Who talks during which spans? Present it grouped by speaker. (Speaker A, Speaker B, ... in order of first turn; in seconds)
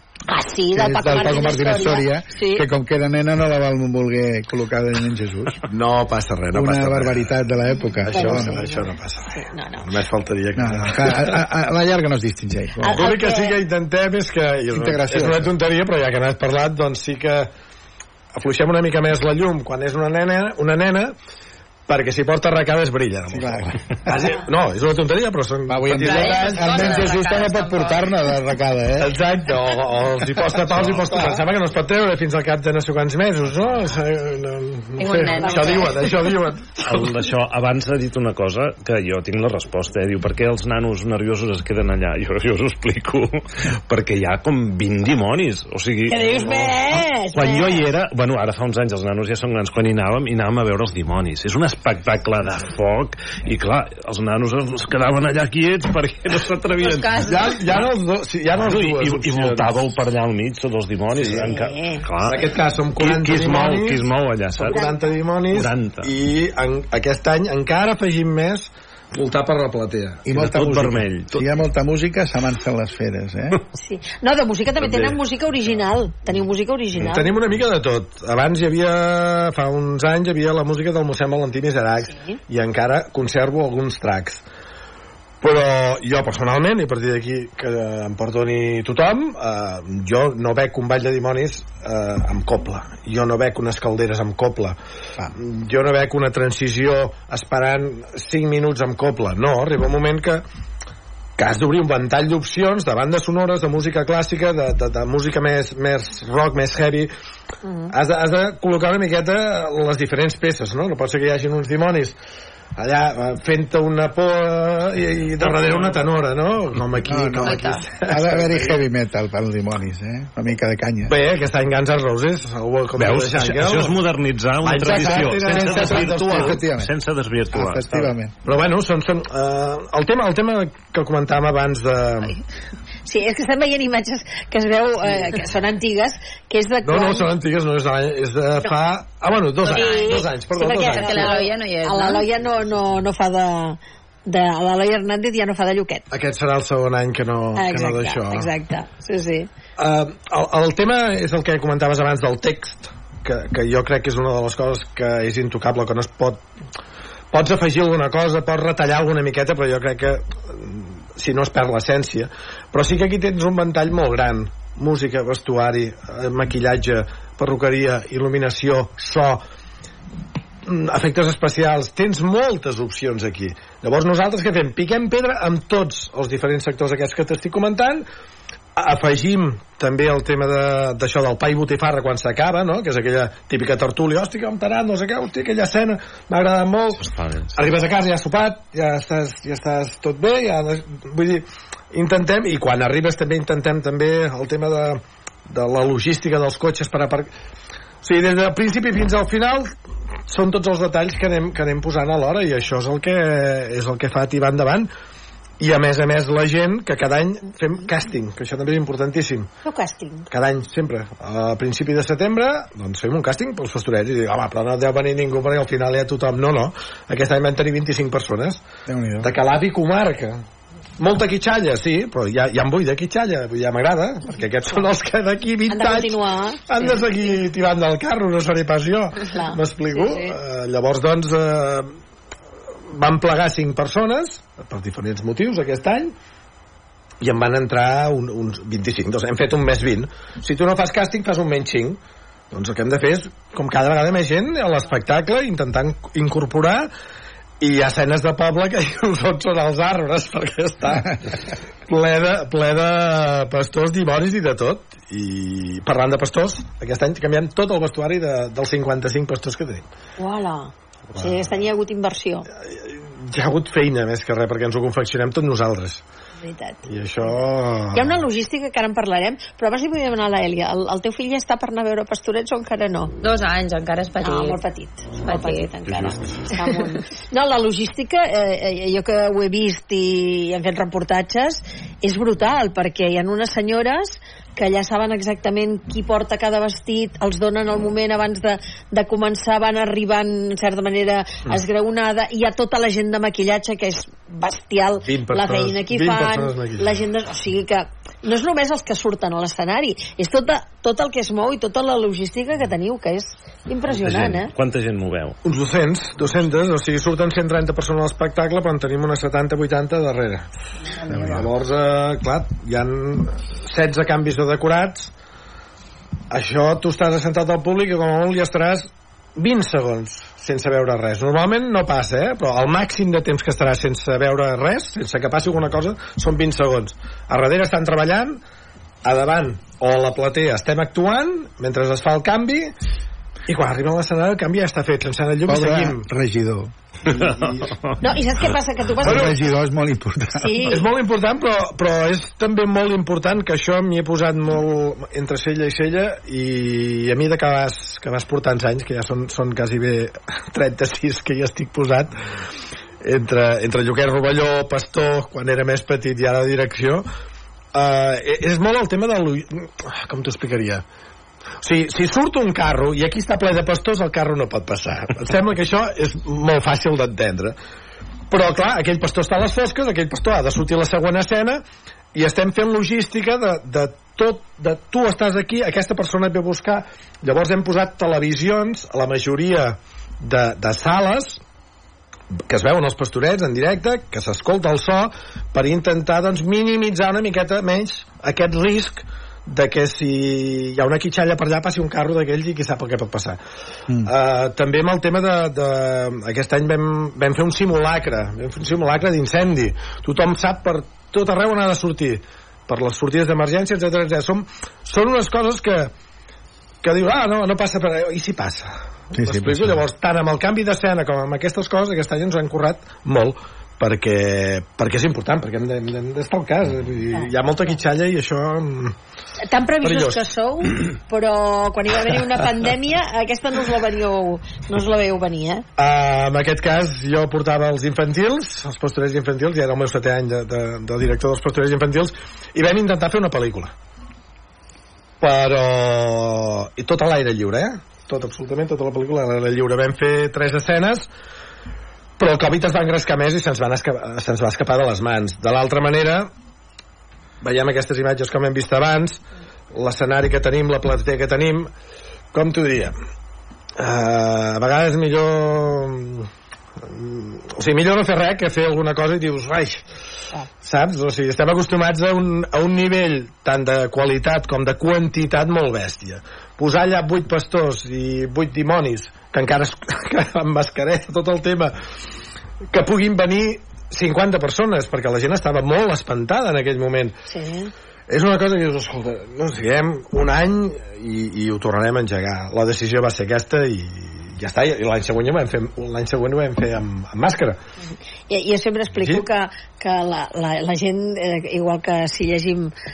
Speaker A: 0.3-2.7, 8.1-9.9, 12.8-13.6, 35.1-36.1, 46.1-47.8, 61.4-62.0, 64.7-65.1, 73.8-77.3, 82.0-82.4, 107.7-107.9, 133.1-137.3, 139.7-146.0, 147.6-149.5, 209.6-210.3, 225.7-227.4, 229.3-230.4, 260.2-262.5, 266.4-267.4, 267.9-273.1, 274.2-304.5, 338.0-339.4, 340.4-340.9, 417.1-417.7, 419.4-425.7, 477.3-477.7, 488.3-492.7
Speaker B: 0.7-5.6, 6.5-8.7, 10.6-13.0, 14.7-15.5, 23.3-24.1, 25.7-29.2, 30.4-31.5, 70.3-73.6, 117.0-121.2, 124.8-126.9, 127.5-128.3, 218.9-219.3, 311.1-311.5, 335.5-336.7, 339.0-340.7, 409.2-409.8
Speaker C: 5.7-7.3, 8.0-11.4, 12.9-17.5, 18.4-21.1, 21.9-27.1, 29.0-37.2, 57.2-59.8, 61.1-61.5, 62.2-64.0, 64.5-70.3, 74.8-75.2, 77.0-84.4, 85.4-94.8, 95.3-100.4, 101.4-107.1, 107.9-112.2, 112.8-118.7, 121.1-124.0, 124.6-126.6, 128.4-132.4, 136.8-141.3, 146.1-148.5, 149.8-156.4, 157.3-169.4, 170.7-178.1, 178.8-187.0, 187.6-197.3, 198.0-199.7, 200.3-204.9, 205.6-209.5, 210.3-218.6, 219.2-220.4, 221.0-231.9, 232.9-236.1, 237.2-242.0, 242.5-246.9, 247.6-251.3, 251.9-259.8, 261.1-261.4, 262.7-266.0, 266.9-268.2, 295.0-297.0, 305.4-310.5, 311.1-315.1, 316.3-328.4, 329.0-332.7, 333.5-336.1, 337.1-337.7, 339.0-339.4, 340.7-352.2, 353.0-357.1, 357.7-360.8, 361.6-367.6, 368.3-371.6, 372.1-381.4, 382.5-393.4, 394.0-405.9, 406.8-418.9, 419.8-420.2, 425.8-433.7, 435.2-441.1, 442.2-446.3, 447.4-449.2, 449.7-451.7, 452.3-452.9, 453.8-456.3, 456.9-459.8, 460.6-471.7, 472.7-477.2, 478.1-487.6, 489.0-489.2
Speaker D: 25.9-28.1, 35.0-36.1, 56.8-57.9, 117.4-117.8, 139.6-142.3, 273.2-274.6, 275.2-275.7
Speaker E: 36.8-57.2, 58.6-64.8, 65.5-66.1, 70.3-71.5, 123.0-128.1, 187.0-187.6, 303.9-305.4